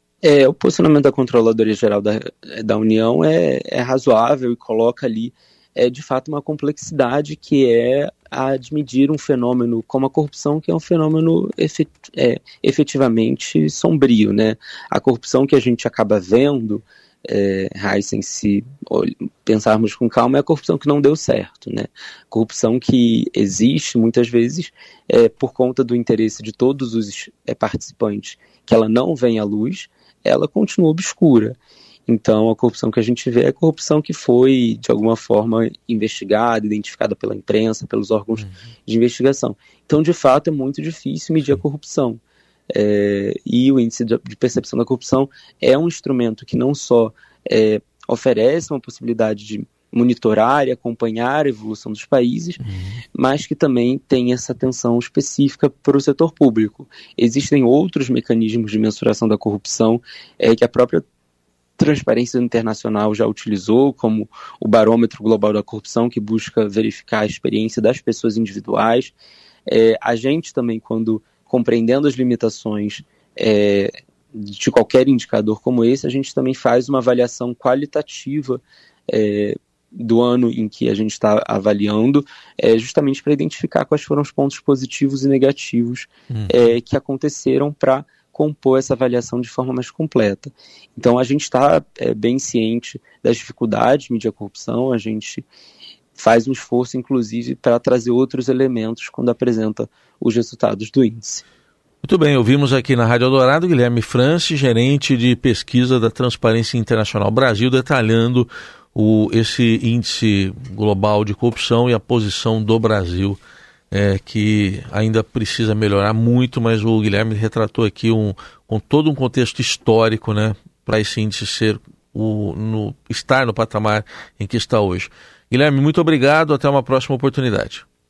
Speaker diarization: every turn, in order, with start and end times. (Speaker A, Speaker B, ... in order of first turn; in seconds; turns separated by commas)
Speaker A: 0.2-42.2, Speaker A: 42.7-52.6, Speaker B: 52.6-53.0, Speaker A: 53.1-61.0, Speaker A: 61.8-69.1, Speaker A: 69.7-95.5, Speaker B: 86.3-86.7, Speaker A: 96.2-101.4, Speaker B: 102.0-113.4, Speaker B: 113.9-127.8